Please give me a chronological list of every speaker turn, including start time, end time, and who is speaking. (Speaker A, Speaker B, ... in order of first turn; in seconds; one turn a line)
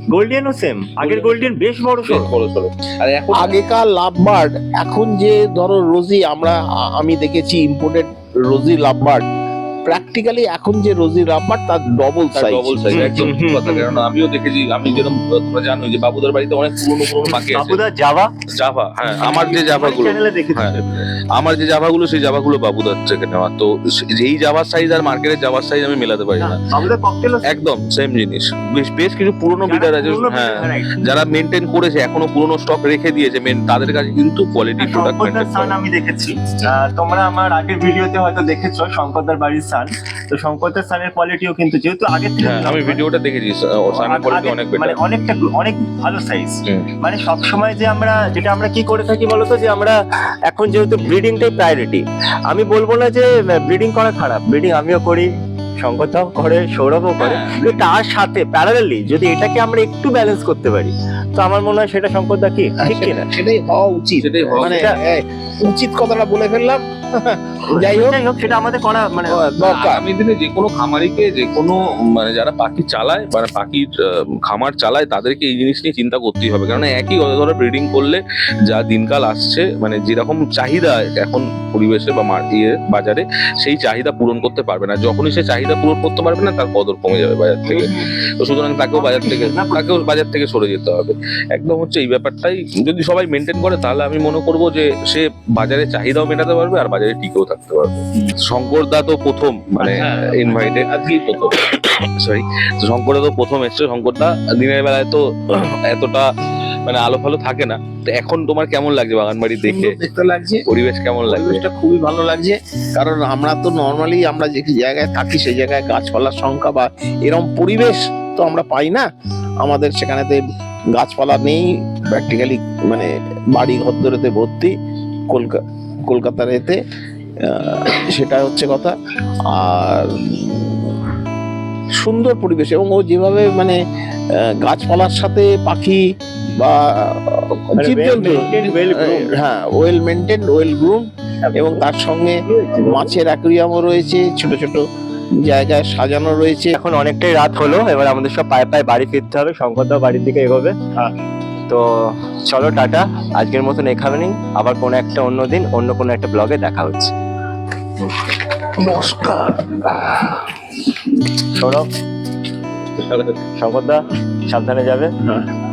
Speaker A: 0.1-2.3
Speaker B: 1.0-1.4
Speaker B: 2.0-3.6
Speaker C: 3.3-9.2
Speaker C: 9.8-13.1
Speaker B: 12.3-17.8
Speaker A: 12.9-14.0
Speaker A: 17.2-18.3
Speaker B: 18.5-20.8
Speaker A: 19.2-21.1
Speaker B: 21.4-26.7
Speaker A: 26.4-27.6
Speaker B: 27.5-35.8
Speaker A: 29.6-31.0
Speaker A: 34.8-43.0
Speaker B: 42.4-45.0
Speaker A: 43.9-50.0
Speaker A: 50.5-55.3
Speaker A: 55.8-63.3
Speaker B: 57.2-57.8
Speaker C: 62.8-68.2
Speaker B: 64.2-64.9
Speaker A: 64.6-65.0
Speaker A: 67.7-69.4
Speaker B: 69.3-106.3
Speaker C: 69.6-70.0
Speaker A: 87.7-88.1
Speaker A: 88.9-90.0
Speaker C: 99.8-101.2
Speaker B: 106.9-110.0
Speaker C: 109.6-110.7
Speaker B: 110.7-111.6
Speaker C: 111.3-119.0
Speaker C: 119.6-120.4
Speaker C: 121.0-124.7
Speaker C: 125.3-126.8
Speaker C: 127.4-128.9
Speaker C: 129.5-131.0
Speaker C: 132.0-133.8
Speaker C: 134.5-136.0
Speaker C: 136.6-144.8
Speaker A: 137.8-139.3
Speaker A: 141.5-141.8
Speaker A: 142.5-143.2
Speaker C: 145.4-146.8
Speaker A: 146.8-151.1
Speaker A: 151.7-157.1
Speaker C: 158.8-159.8
Speaker A: 161.5-161.9
Speaker B: 163.0-163.4
Speaker A: 163.6-165.1